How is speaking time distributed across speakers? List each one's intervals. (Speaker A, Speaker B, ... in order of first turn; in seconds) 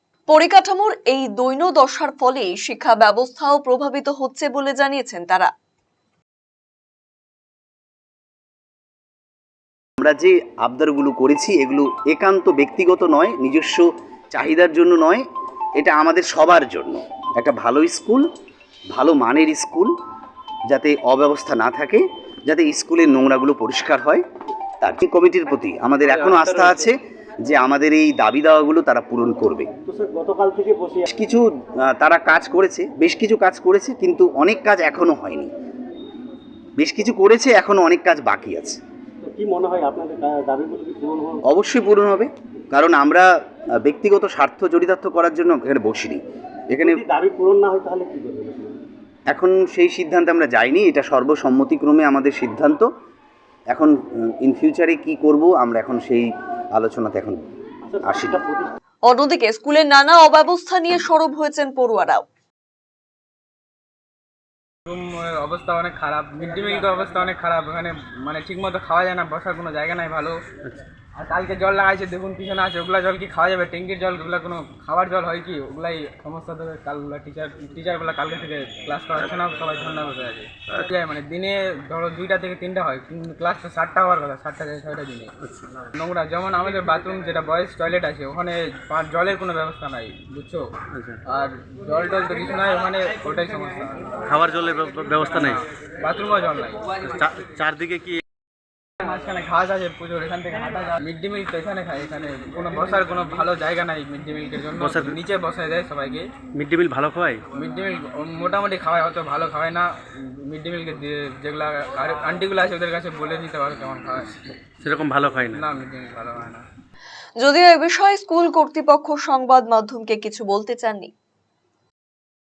Speaker A: 0.3-5.5, 59.1-62.2, 117.4-121.1
Speaker B: 10.0-15.2, 15.8-18.2, 18.9-19.9, 20.7-24.2, 24.8-29.7, 31.1-35.5, 36.8-38.8, 41.5-43.2, 43.8-46.2, 46.7-47.0, 49.3-52.9, 53.7-57.4, 58.0-58.4
Speaker C: 29.8-31.1, 39.2-41.4, 46.8-48.7, 57.9-58.7
Speaker D: 64.9-70.4, 71.2-85.3, 85.9-90.7, 91.3-94.0, 96.0-96.9, 99.0-106.3, 107.5-109.9, 110.4-114.3, 115.5-116.6
Speaker E: 85.4-85.7, 90.9-91.2, 94.3-95.6, 97.1-98.2, 104.8-105.2, 106.5-107.4, 114.8-115.6